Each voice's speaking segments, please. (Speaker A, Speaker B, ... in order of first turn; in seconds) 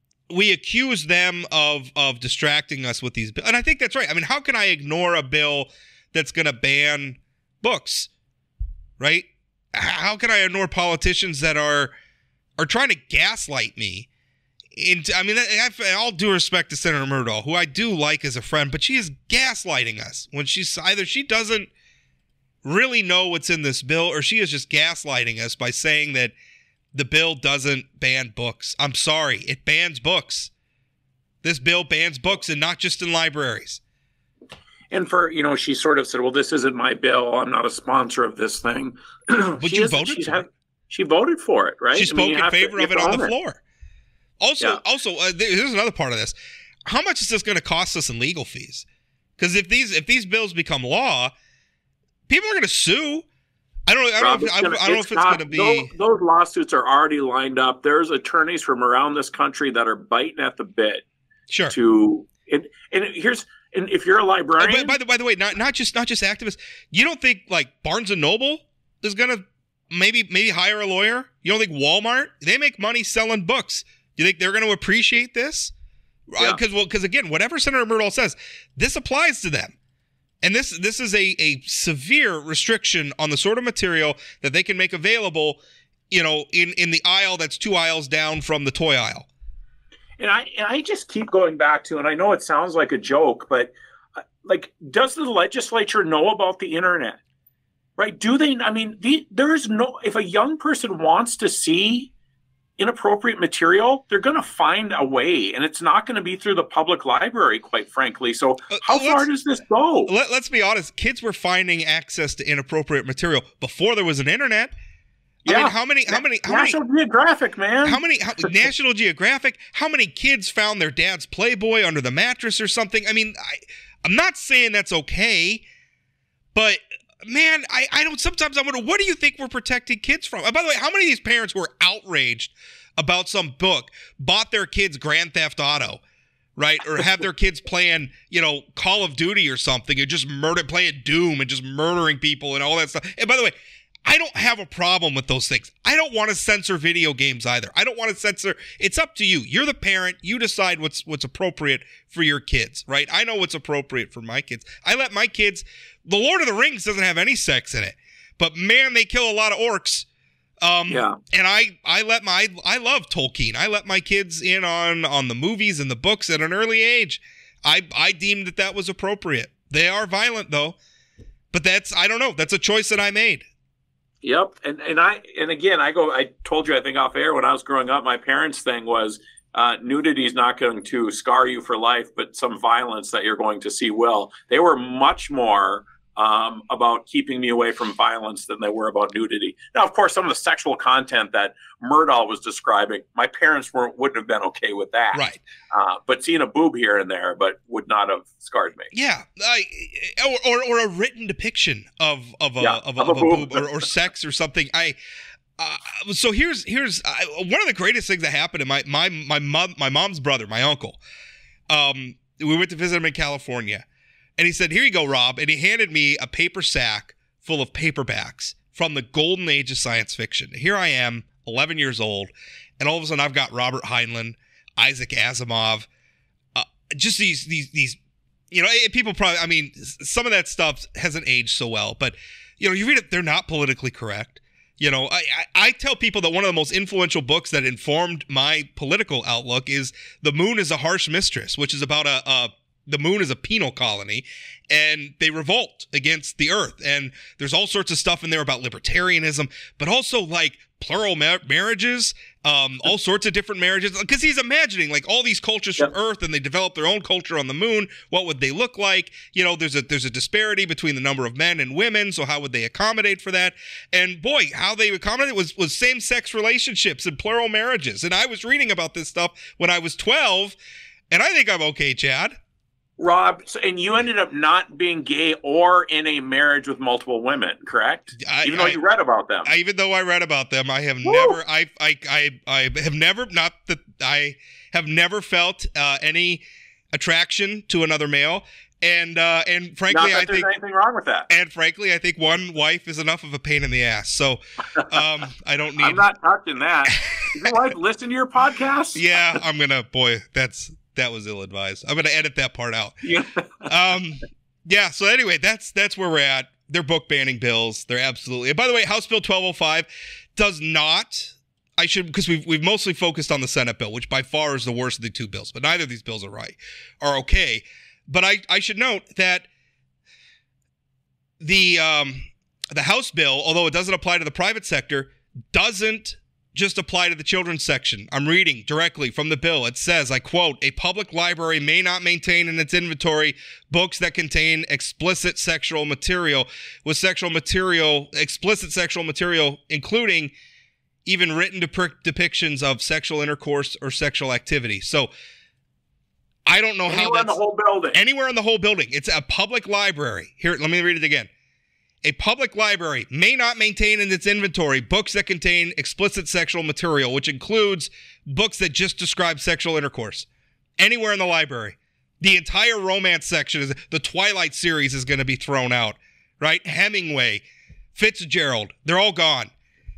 Speaker A: 0.3-8.1, 9.0-11.9, 12.6-14.1, 14.8-21.7, 22.6-26.3, 26.9-30.5, 31.4-33.8, 39.6-40.4, 41.9-43.6, 44.4-46.3, 46.9-48.8, 49.4-51.3, 52.3-53.2, 53.9-55.9, 61.5-61.7, 64.6-75.7, 76.3-79.7, 80.4-85.6, 86.1-89.3, 108.7-109.2, 110.1-114.7, 115.4-116.8, 117.8-125.6, 126.5-136.0, 136.6-143.5, 144.1-160.1, 160.6-170.8, 171.5-173.4, 195.1-195.4, 198.9-204.9, 205.6-211.0, 211.7-213.8, 214.4-225.9, 226.5-228.0, 228.5-270.6, 271.1-272.3, 278.2-278.8, 279.4-290.5, 291.3-296.0, 297.1-297.5, 298.9-303.0, 303.6-319.5, 321.4-340.3, 341.0-345.1, 346.4-347.4, 347.9-351.3, 352.0-360.3, 360.8-367.4, 367.9-369.5
Speaker B: 34.9-43.3, 54.2-61.0, 61.7-65.0, 90.2-93.7, 94.4-97.2, 98.0-102.1, 102.8-110.1, 115.5-118.7, 160.9-161.2, 174.2-198.9, 202.6-203.7, 273.0-279.5, 281.0-281.4, 289.9-291.3, 295.8-299.4, 303.0-303.7, 346.9-348.0